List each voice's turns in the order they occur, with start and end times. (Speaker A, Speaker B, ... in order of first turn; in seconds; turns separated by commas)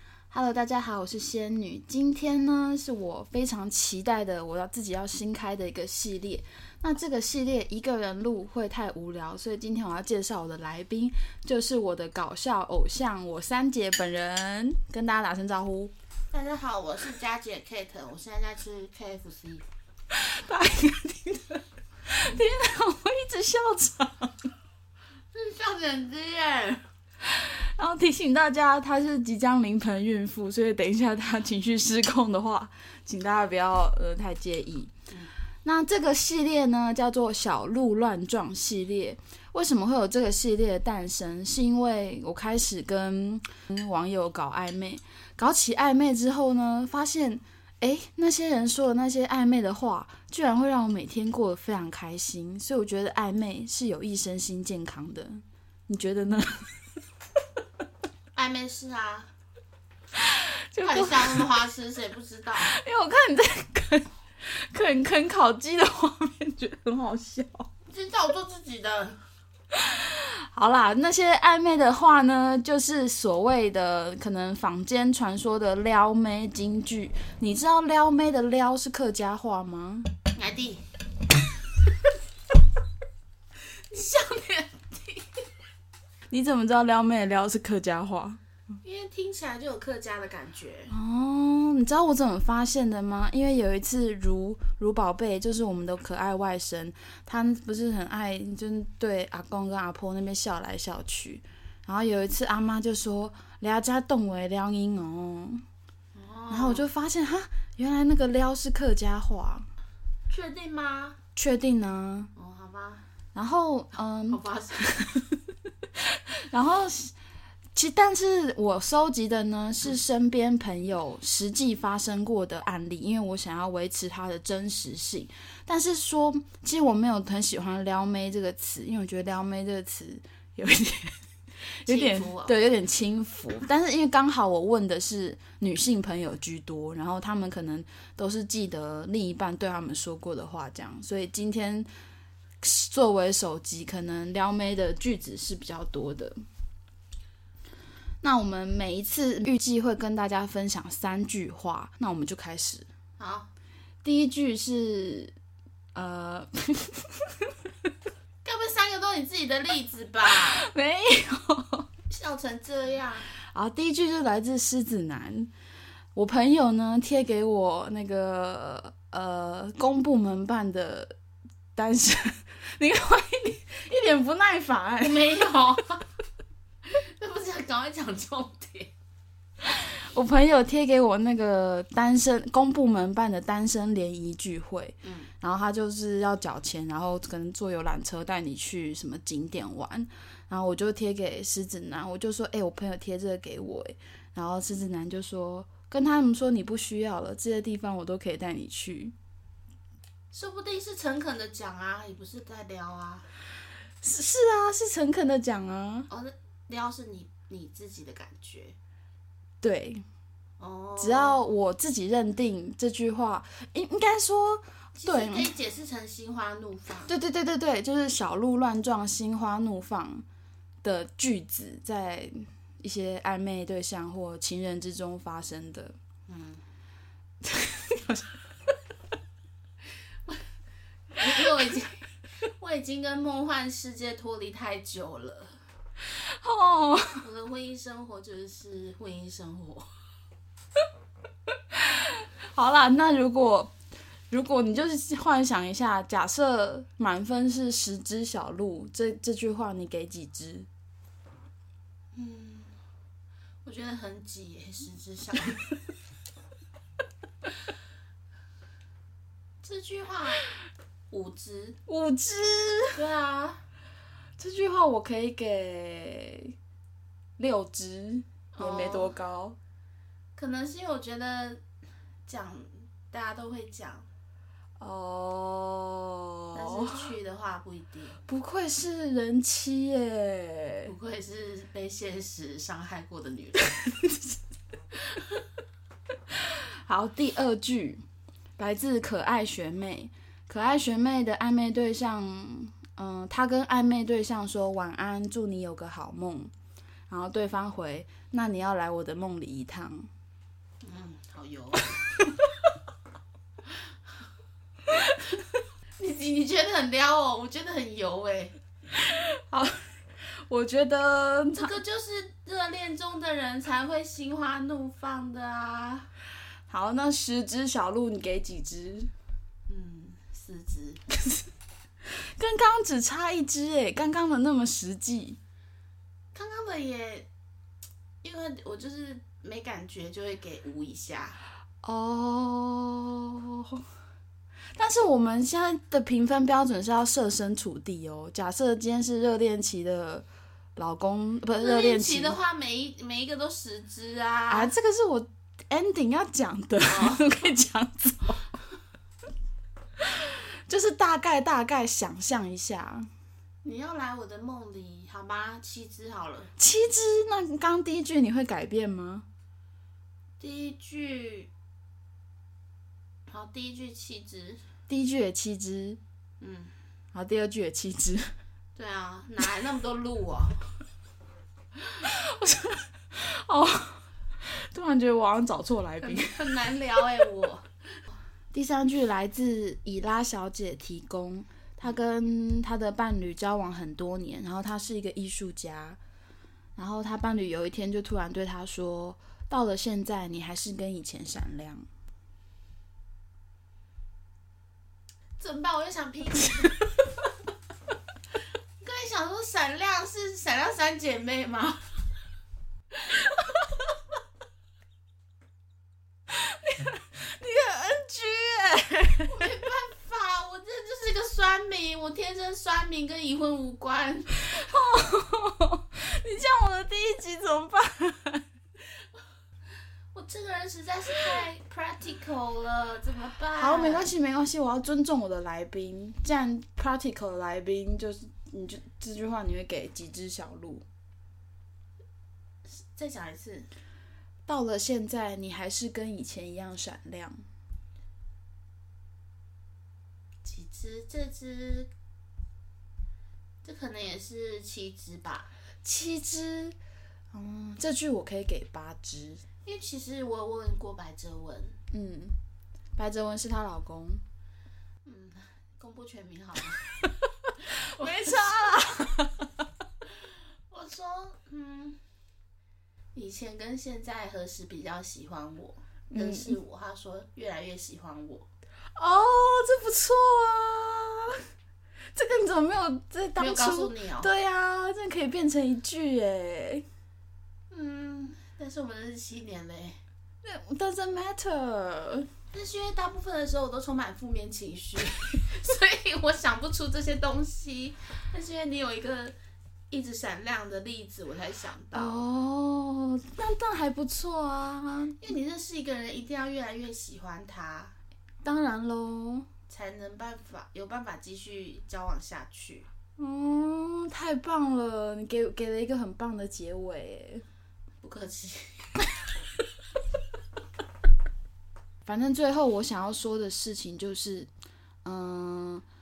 Speaker A: 0.3-15.9, Speaker B: 16.3-19.6, Speaker A: 20.2-24.5, Speaker B: 25.3-26.8, Speaker A: 27.2-34.9, Speaker A: 35.6-56.7, Speaker B: 58.3-59.3, Speaker A: 60.2-61.5, Speaker B: 60.8-62.7, Speaker A: 62.6-67.7, Speaker B: 67.9-69.2, Speaker A: 69.9-80.1, Speaker B: 80.3-80.8, Speaker B: 83.9-85.4, Speaker A: 86.3-88.4, Speaker B: 88.8-90.9, Speaker A: 90.9-105.6, Speaker B: 106.1-106.9, Speaker A: 106.5-109.7, Speaker B: 110.3-111.2, Speaker A: 111.3-112.3, Speaker B: 112.3-113.0, Speaker A: 113.3-115.4, Speaker B: 114.3-114.8, Speaker A: 116.1-117.1, Speaker A: 117.7-141.9, Speaker B: 131.9-132.6, Speaker A: 142.6-146.4, Speaker A: 148.2-152.9, Speaker B: 153.2-153.5, Speaker A: 154.0-155.3, Speaker A: 155.9-157.3, Speaker B: 158.4-160.6, Speaker A: 160.3-161.9, Speaker B: 162.1-163.3, Speaker A: 163.4-165.5, Speaker A: 166.2-171.2, Speaker A: 171.8-175.5, Speaker B: 175.0-176.1, Speaker B: 176.8-178.9, Speaker A: 179.6-199.2, Speaker B: 185.0-185.3, Speaker B: 200.3-203.3, Speaker A: 204.0-206.1, Speaker B: 206.1-208.8, Speaker A: 209.6-210.0, Speaker B: 210.6-211.4, Speaker A: 211.0-215.5, Speaker B: 215.0-217.1, Speaker A: 217.1-220.2, Speaker A: 220.8-226.0, Speaker B: 226.3-226.6, Speaker A: 227.5-228.2, Speaker B: 231.2-235.6, Speaker A: 236.1-237.2, Speaker B: 237.2-239.9, Speaker A: 241.8-243.7, Speaker A: 244.3-250.7, Speaker B: 252.2-252.7, Speaker B: 253.6-255.7, Speaker B: 259.6-260.4, Speaker B: 261.1-261.8, Speaker A: 261.9-263.0, Speaker B: 262.9-263.6, Speaker A: 264.4-266.5, Speaker A: 267.4-269.6, Speaker B: 268.5-269.1, Speaker B: 270.4-271.6, Speaker B: 272.2-274.1, Speaker A: 274.8-277.1, Speaker B: 276.5-278.2, Speaker A: 278.3-280.9, Speaker B: 280.8-283.6, Speaker A: 286.4-288.0, Speaker A: 288.6-296.5, Speaker A: 297.1-300.1, Speaker B: 300.8-302.0, Speaker B: 306.0-308.6, Speaker A: 308.9-311.8, Speaker B: 311.5-316.1, Speaker A: 316.7-319.1, Speaker B: 319.7-321.0, Speaker A: 321.1-321.4, Speaker A: 322.1-325.4, Speaker B: 326.3-327.3, Speaker B: 328.2-331.4, Speaker A: 331.8-333.8, Speaker A: 334.8-342.4, Speaker B: 341.6-344.7, Speaker A: 344.5-348.5, Speaker B: 346.8-347.4, Speaker A: 350.1-353.1, Speaker B: 353.6-356.5, Speaker A: 356.6-359.2, Speaker B: 360.4-361.5, Speaker B: 363.3-364.6, Speaker A: 364.9-366.0, Speaker B: 366.4-366.7, Speaker A: 367.1-368.3, Speaker B: 368.8-370.7, Speaker A: 372.0-376.4, Speaker B: 376.0-377.7, Speaker A: 378.5-386.0, Speaker A: 386.8-391.9, Speaker B: 395.4-396.8, Speaker B: 398.8-401.9, Speaker A: 406.3-409.5, Speaker B: 409.2-414.4, Speaker A: 414.4-418.4, Speaker B: 420.1-424.1, Speaker A: 423.6-430.8, Speaker B: 432.6-433.7, Speaker A: 434.5-437.4, Speaker B: 440.4-441.9, Speaker B: 443.6-445.5, Speaker A: 445.8-446.8, Speaker A: 447.3-449.4, Speaker B: 449.6-451.8, Speaker A: 451.9-452.4, Speaker A: 453.0-454.2, Speaker B: 455.0-457.1, Speaker A: 457.5-459.5, Speaker B: 457.7-458.8, Speaker B: 460.1-462.0, Speaker B: 463.1-468.5, Speaker A: 466.1-466.6, Speaker A: 468.9-471.4, Speaker A: 472.1-476.8, Speaker B: 473.4-474.3, Speaker B: 477.7-480.0, Speaker A: 480.4-482.3, Speaker B: 482.5-489.4, Speaker B: 489.9-492.3, Speaker A: 491.9-495.2, Speaker B: 495.2-497.9, Speaker A: 498.4-499.5, Speaker B: 499.7-502.9, Speaker A: 503.2-507.4, Speaker B: 508.0-509.0, Speaker A: 512.0-514.5, Speaker A: 515.0-515.9